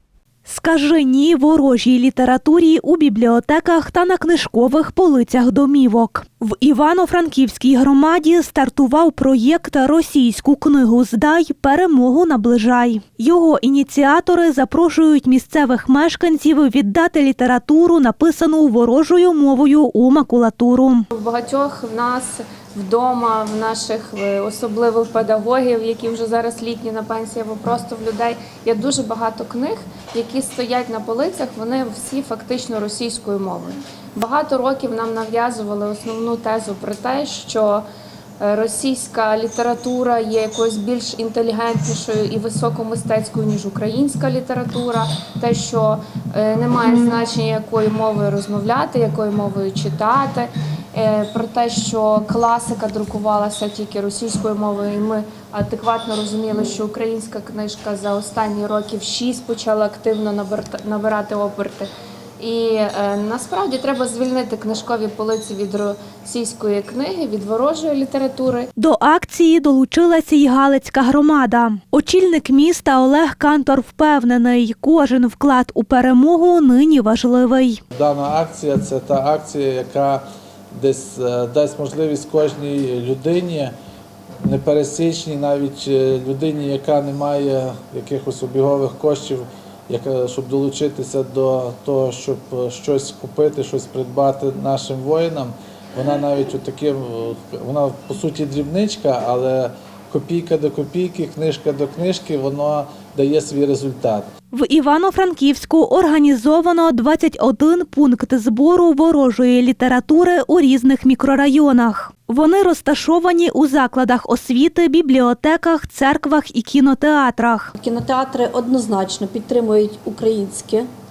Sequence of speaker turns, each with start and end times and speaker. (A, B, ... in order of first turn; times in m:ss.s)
0:00.4-0:21.1 A
0:21.1-0:37.8 B
0:38.4-1:08.7 B
1:08.8-1:17.8 A
1:17.9-1:23.7 C
1:24.4-1:44.3 C
1:44.5-1:57.7 A
1:57.8-2:00.9 D